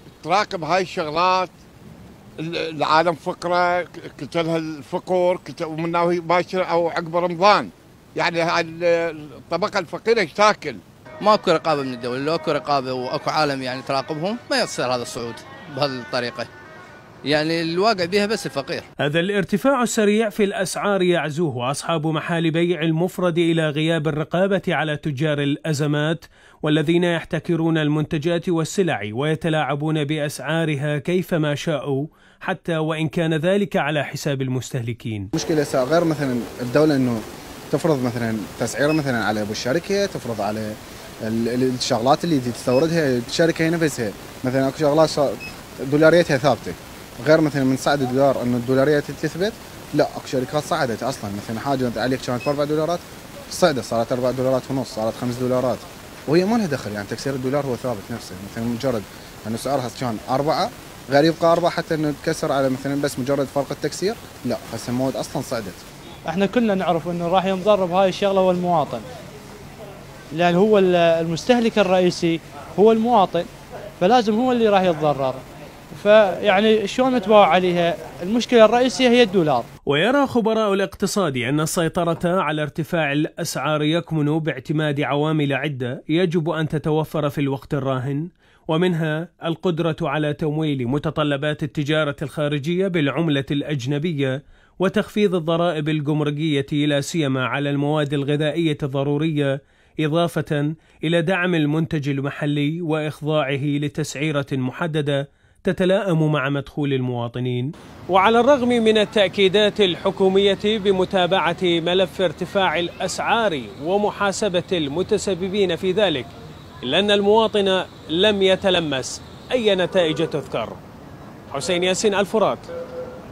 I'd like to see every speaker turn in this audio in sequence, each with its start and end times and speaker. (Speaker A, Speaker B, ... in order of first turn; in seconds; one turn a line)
Speaker A: 0.2-1.5
Speaker A: 2.4-10.8
Speaker B: 11.2-16.5
Speaker B: 17.2-18.8
Speaker C: 19.0-35.3
Speaker D: 35.4-65.8
Speaker E: 66.2-69.0
Speaker E: 70.3-79.7
Speaker C: 79.9-99.5
Speaker C: 100.0-116.3
Speaker C: 116.8-120.8
Speaker C: 121.5-122.6